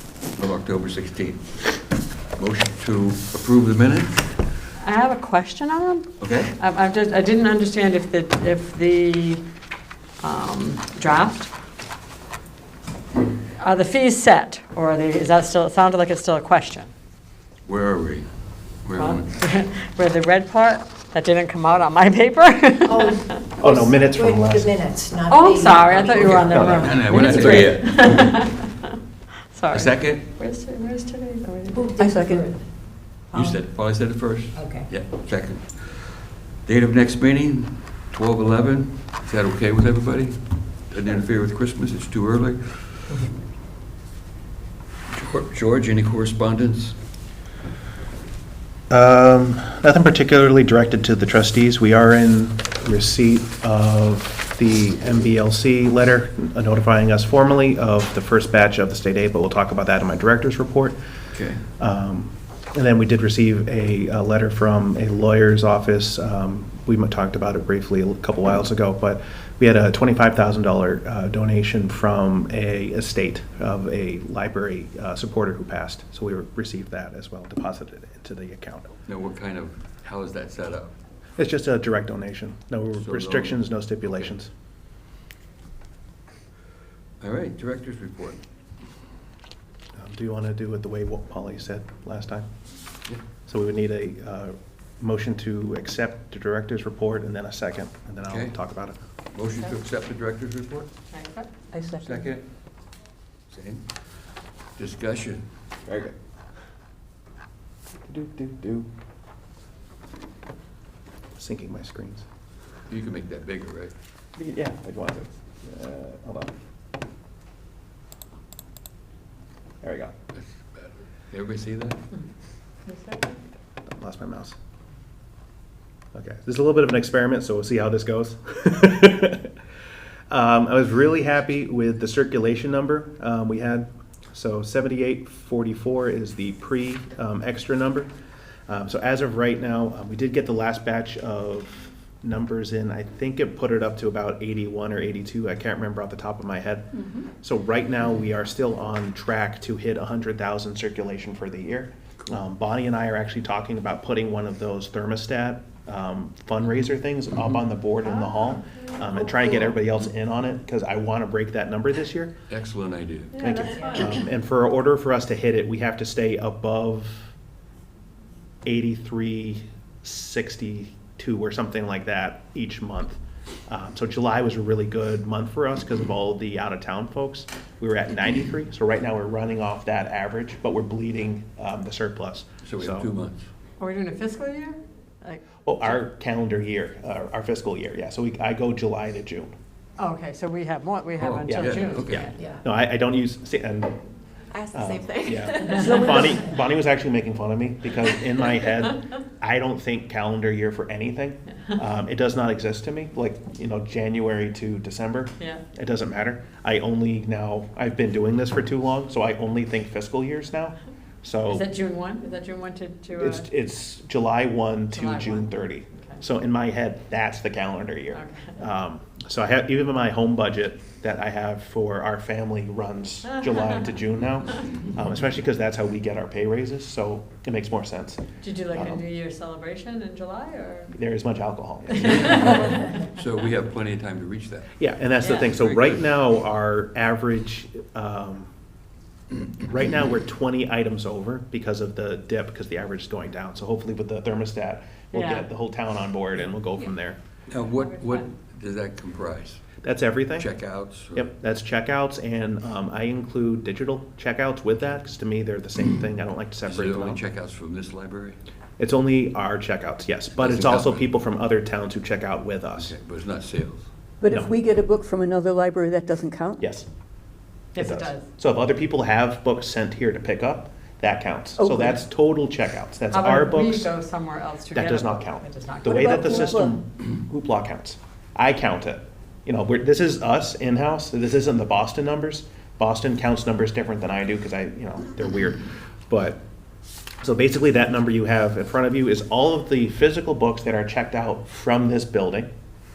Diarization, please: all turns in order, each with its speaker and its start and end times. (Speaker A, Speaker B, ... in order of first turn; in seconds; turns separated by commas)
Speaker A: 0.4-1.6, Speaker A: 2.4-4.3, Speaker B: 4.8-9.4, Speaker A: 6.2-6.5, Speaker B: 10.2-11.5, Speaker B: 13.6-16.9, Speaker A: 17.7-18.3, Speaker A: 18.8-19.3, Speaker B: 19.0-23.4, Speaker C: 22.9-27.7, Speaker D: 23.6-24.8, Speaker B: 25.3-28.9, Speaker D: 26.5-26.9, Speaker A: 26.7-28.4, Speaker B: 29.5-31.9, Speaker A: 29.7-30.3, Speaker C: 31.7-32.7, Speaker E: 32.0-32.5, Speaker A: 33.3-43.2, Speaker C: 34.6-34.9, Speaker A: 45.1-47.0, Speaker D: 48.9-61.0, Speaker A: 61.3-61.7, Speaker D: 61.8-78.9, Speaker A: 79.1-81.0, Speaker D: 81.4-84.5, Speaker A: 83.0-83.6, Speaker A: 87.2-88.4, Speaker D: 90.0-92.5, Speaker D: 93.5-99.0, Speaker A: 98.3-98.6, Speaker A: 99.3-100.9, Speaker B: 101.1-101.5, Speaker E: 101.7-102.3, Speaker A: 102.0-102.5, Speaker A: 103.5-103.9, Speaker A: 104.8-105.5, Speaker D: 105.9-106.1, Speaker D: 108.1-108.9, Speaker D: 111.4-112.3, Speaker A: 112.9-113.9, Speaker D: 114.4-116.5, Speaker D: 119.8-120.1, Speaker A: 120.3-122.0, Speaker B: 122.9-123.4, Speaker D: 123.9-124.6, Speaker D: 126.1-129.5, Speaker D: 130.3-138.1, Speaker D: 138.7-162.3, Speaker B: 158.0-159.6, Speaker A: 162.5-163.4, Speaker B: 163.3-164.3, Speaker D: 163.4-167.3, Speaker C: 163.8-164.2, Speaker D: 168.7-183.1, Speaker A: 182.6-183.5, Speaker B: 183.8-186.0, Speaker D: 185.7-189.5, Speaker B: 190.0-192.4, Speaker A: 191.2-192.3, Speaker D: 191.5-194.0, Speaker D: 194.7-211.7, Speaker B: 195.6-196.2, Speaker C: 195.6-196.3, Speaker B: 211.5-213.5, Speaker D: 213.2-229.0, Speaker B: 214.9-216.2, Speaker B: 218.1-218.6, Speaker B: 228.4-231.0, Speaker D: 230.9-232.8, Speaker B: 231.9-233.0, Speaker A: 232.0-234.7, Speaker D: 234.8-238.5, Speaker B: 235.2-235.5, Speaker A: 235.4-236.0, Speaker D: 239.6-247.2, Speaker B: 245.1-245.5, Speaker A: 247.5-249.6, Speaker B: 248.0-248.3, Speaker D: 249.8-250.5, Speaker A: 250.4-251.3, Speaker D: 251.1-257.2, Speaker A: 256.6-258.4, Speaker D: 258.8-262.9, Speaker A: 260.4-261.1, Speaker A: 262.8-263.9, Speaker E: 264.2-266.6, Speaker D: 264.3-264.5, Speaker D: 266.6-266.9, Speaker B: 267.8-268.3, Speaker D: 267.8-273.9, Speaker E: 271.6-272.0, Speaker B: 273.1-276.5, Speaker D: 274.7-286.4, Speaker E: 275.9-276.8, Speaker D: 287.2-292.5